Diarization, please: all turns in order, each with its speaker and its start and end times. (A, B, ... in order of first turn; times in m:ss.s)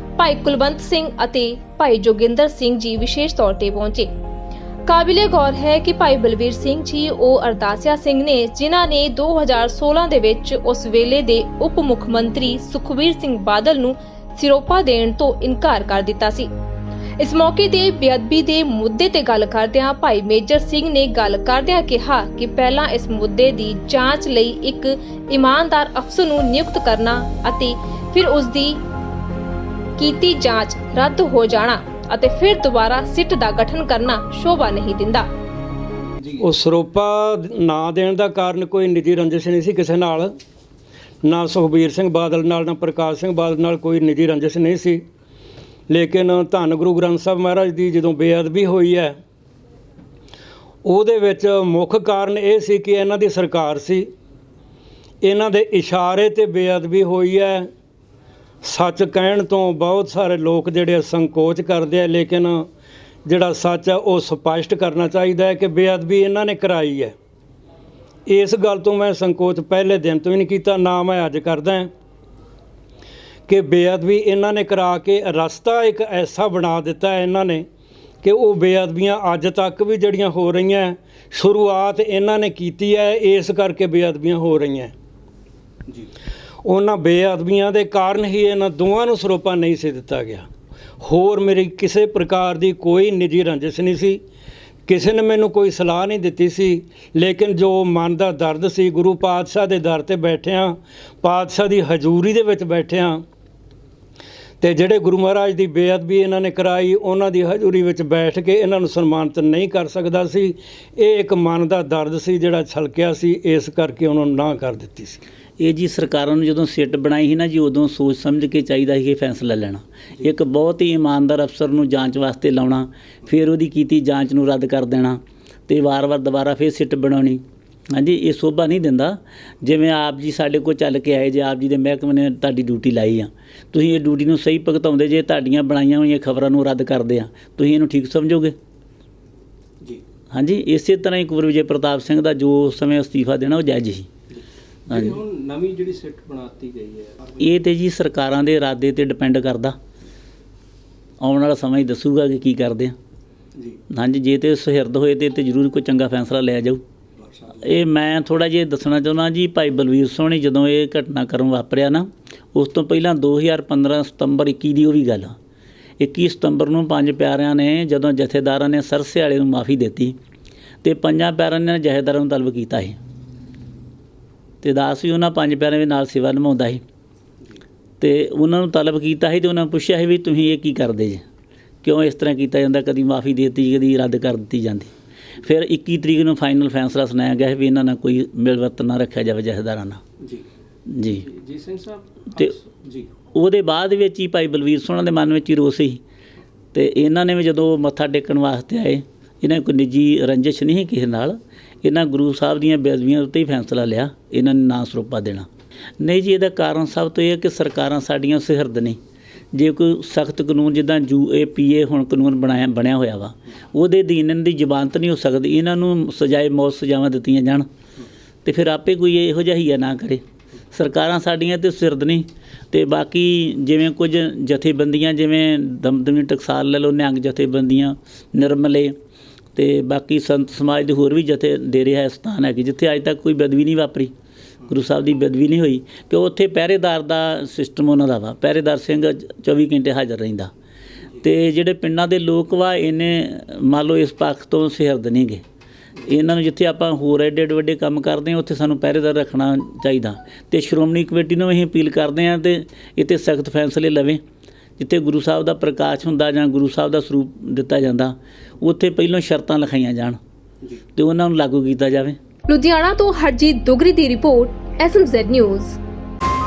0:00.2-0:04.1 A
0:04.8-0:16.5 A
0:17.2-0:28.8 A
0:30.0-0:35.3 A
0:36.4-0:40.3 B
0:41.2-0:45.0 B
0:45.9-0:49.2 B
0:50.8-0:54.1 B
0:55.2-0:57.7 B
0:58.6-1:02.7 B
1:03.2-1:07.2 B
1:08.3-1:11.9 B
1:13.5-1:17.6 B
1:18.2-1:24.9 B
1:26.6-1:30.5 B
1:31.0-1:34.2 B
1:34.9-1:43.2 B
1:44.6-1:55.2 B
1:55.6-2:18.5 C
2:20.3-2:24.1 C
2:24.3-2:27.4 D
2:24.9-2:25.2 C
2:27.4-2:29.8 C
2:31.2-2:32.9 C
2:33.9-2:36.8 C
2:37.2-2:37.8 D
2:37.6-2:45.3 C
2:46.0-2:50.2 C
2:50.8-2:53.0 C
2:54.6-2:56.8 C
2:58.0-3:01.2 C
3:01.8-3:04.9 C
3:05.4-3:10.0 C
3:10.2-3:10.5 D
3:10.9-3:11.2 C
3:11.0-3:13.1 D
3:13.3-3:16.0 C
3:16.7-3:25.5 C
3:26.0-3:29.0 C
3:29.5-3:37.7 C
3:38.4-3:40.2 C
3:40.7-3:48.9 C
3:49.6-3:54.1 C
3:54.7-4:00.5 C
4:01.2-4:05.4 C
4:06.0-4:14.2 C
4:14.8-4:20.2 C
4:21.0-4:22.2 C
4:22.5-4:25.8 A